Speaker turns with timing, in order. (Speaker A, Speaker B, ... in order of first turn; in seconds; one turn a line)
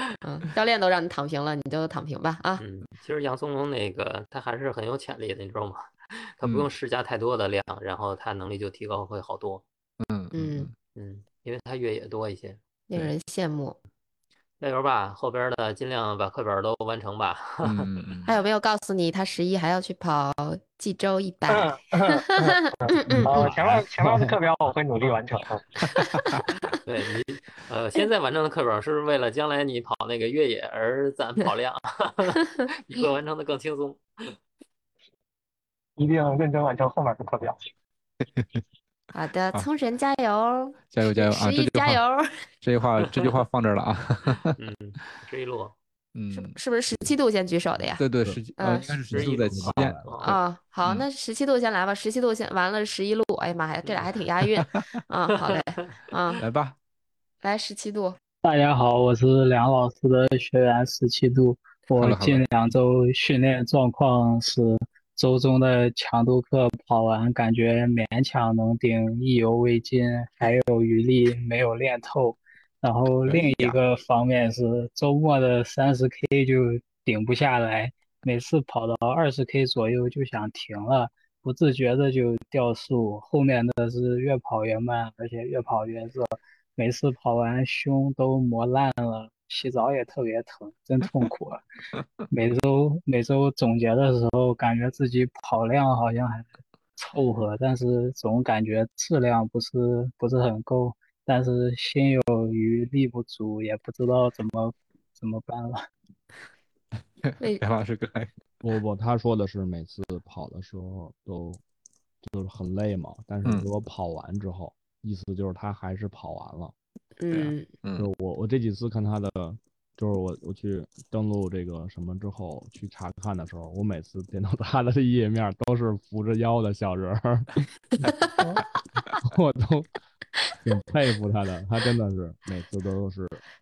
Speaker A: 0.2-2.6
Speaker B: 2.6-9.6
Speaker C: 6.4-6.7
Speaker C: 10.0-10.7
Speaker A: 10.3-10.7
Speaker B: 10.9-12.6
Speaker A: 12.9-13.8
Speaker B: 14.6-17.9
Speaker C: 17.6-18.3
Speaker A: 18.3-21.7
Speaker D: 21.5-22.1
Speaker A: 22.3-23.5
Speaker D: 22.8-25.8
Speaker B: 23.3-23.6
Speaker B: 26.8-34.3
Speaker D: 36.0-37.7
Speaker A: 39.1-42.5
Speaker C: 40.9-42.0
Speaker C: 42.6-44.5
Speaker B: 43.0-43.4
Speaker B: 44.6-45.8
Speaker C: 46.1-46.6
Speaker A: 46.3-48.0
Speaker C: 48.0-50.1
Speaker A: 48.6-48.9
Speaker E: 49.1-50.2
Speaker B: 49.1-50.4
Speaker A: 50.2-56.4
Speaker B: 53.8-54.1
Speaker C: 56.4-56.8
Speaker A: 57.4-58.2
Speaker F: 58.4-91.6
Speaker C: 62.0-62.4
Speaker F: 92.3-105.9
Speaker C: 107.2-108.3
Speaker E: 108.6-111.6
Speaker E: 112.2-116.7
Speaker A: 117.2-117.7
Speaker C: 117.3-118.1
Speaker E: 117.9-127.5
Speaker E: 129.2-129.9
Speaker E: 130.6-133.4